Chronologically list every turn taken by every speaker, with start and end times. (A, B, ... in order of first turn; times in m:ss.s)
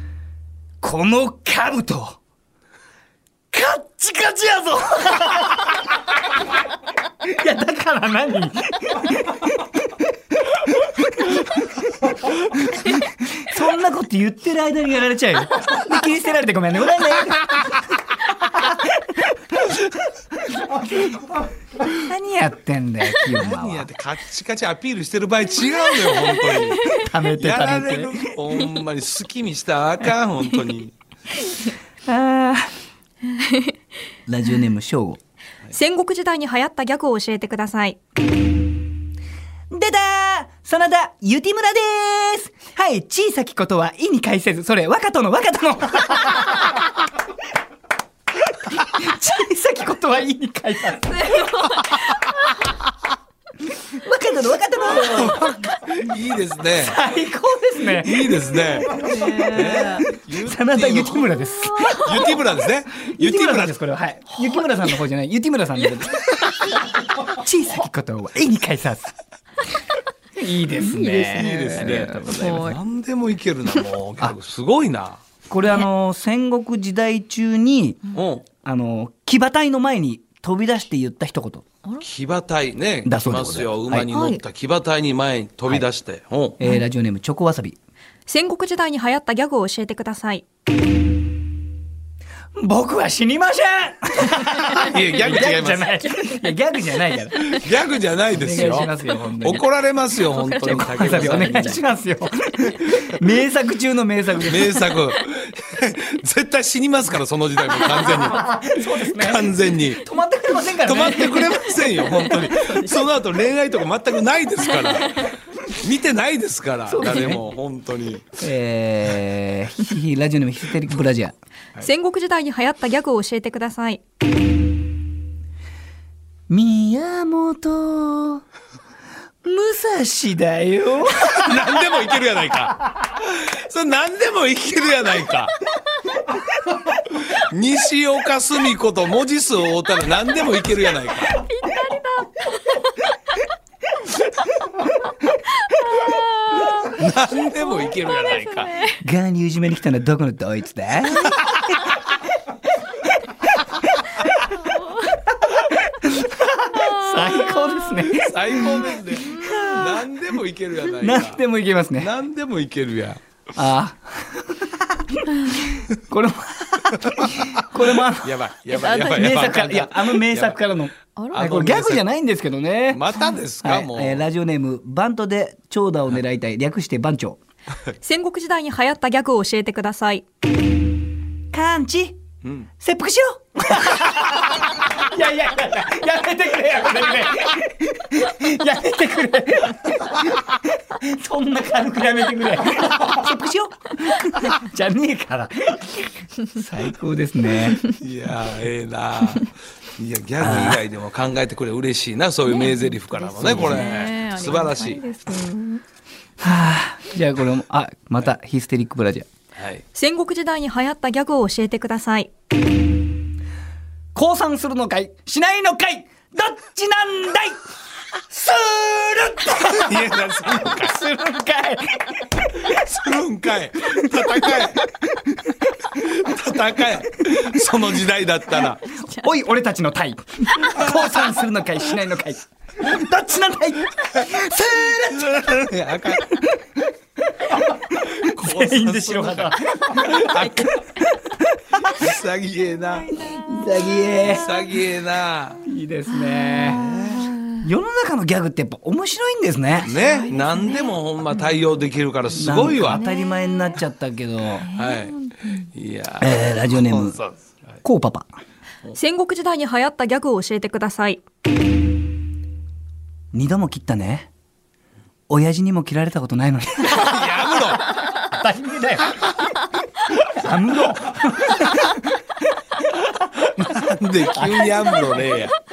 0:00.8-0:02.2 A
0:03.5-0:05.8 A
0:07.2-0:09.7 A
0:10.6-0:17.9 A
0:18.4-0:19.8 A
0:20.7-0:23.9 A
0:23.3-0:30.9 B
0:26.5-0:27.0 C
0:26.9-0:28.3 A
0:32.1-0:32.7 A
0:33.4-0:33.6 C
0:34.3-0:35.2 A
0:35.7-0:38.0 C
0:39.7-0:46.8 A
0:48.6-0:51.5 A
0:51.1-0:52.5 C
0:53.8-0:55.5 A
0:54.9-0:57.0 B
0:56.8-0:58.4 A
0:57.9-1:03.7 B
0:58.8-1:00.1 C
0:59.0-1:02.4 A
1:01.8-1:02.1 C
1:03.1-1:09.1 A
1:10.4-1:12.4 A
1:10.8-1:12.8 C
1:11.2-1:15.2 B
1:15.5-1:18.0 A
1:18.1-1:18.4 B
1:18.6-1:21.6 A
1:22.0-1:26.6 B
1:23.0-1:24.1 A
1:24.1-1:24.4 C
1:26.6-1:27.8 A
1:28.3-1:30.4 C
1:32.6-1:37.6 A
1:34.8-1:35.3 C
1:34.8-1:35.9 B
1:35.9-1:36.5 C
1:37.5-1:41.8 B
1:38.3-1:39.6 A
1:38.6-1:38.8 C
1:40.3-1:41.7 C
1:40.6-1:44.8 A
1:44.4-1:50.0 B
1:48.1-1:51.6 A
1:50.8-1:58.4 B
1:56.9-1:57.4 A
1:58.4-2:01.3 A
2:01.8-2:04.0 C
2:06.5-2:08.4 A
2:09.4-2:11.9 A
2:11.2-2:15.6 B
2:17.2-2:21.4 B
2:20.8-2:23.0 C
2:24.8-2:29.0 C
2:26.9-2:28.7 B
2:29.0-2:31.6 A
2:34.6-2:35.2 C
2:35.5-2:39.9 A
2:36.7-2:37.9 C
2:38.0-2:41.4 B
2:39.2-2:39.9 C
2:41.0-2:42.1 A
2:42.0-2:43.2 B
2:43.6-2:48.4 A
2:48.2-2:50.6 B
2:48.7-2:49.3 C
2:49.0-2:53.0 A
2:51.3-2:52.0 B
2:52.9-2:54.2 B
2:53.6-2:57.4 A
2:58.0-3:00.2 C
3:01.5-3:02.2 A
3:02.8-3:17.9 A
3:18.0-3:25.0 B
3:20.4-3:20.8 A
3:22.4-3:25.8 C
3:23.5-3:23.8 A
3:26.4-3:29.2 A
3:29.6-3:29.8 B
3:29.9-3:32.3 C
3:34.1-3:37.6 A
3:38.3-3:42.4 A
3:39.7-3:41.0 B
3:42.6-3:44.9 B
3:44.2-3:44.6 A
3:45.8-3:49.0 B
3:49.1-3:55.7 A
3:54.9-3:56.4 B
3:57.3-4:00.3 A
3:58.0-4:00.8 B
4:00.2-4:01.0 C
4:01.0-4:02.0 A
4:01.9-4:03.2 B
4:03.1-4:04.6 A
4:03.2-4:03.5 C
4:04.2-4:05.6 B
4:05.6-4:06.9 A
4:06.1-4:07.6 C
4:06.7-4:07.3 B
4:07.6-4:09.9 A
4:09.8-4:13.0 B
4:09.9-4:11.4 C
4:12.3-4:14.7 A
4:12.9-4:13.8 C
4:14.6-4:15.7 C
4:14.7-4:17.7 B
4:16.2-4:17.2 A
4:17.8-4:18.3 A
4:18.9-4:21.2 C
4:23.3-4:24.3 A
4:25.3-4:29.3 A
4:26.9-4:27.9 B
4:30.1-4:32.1 A
4:33.6-4:35.6 B
4:34.4-4:35.2 A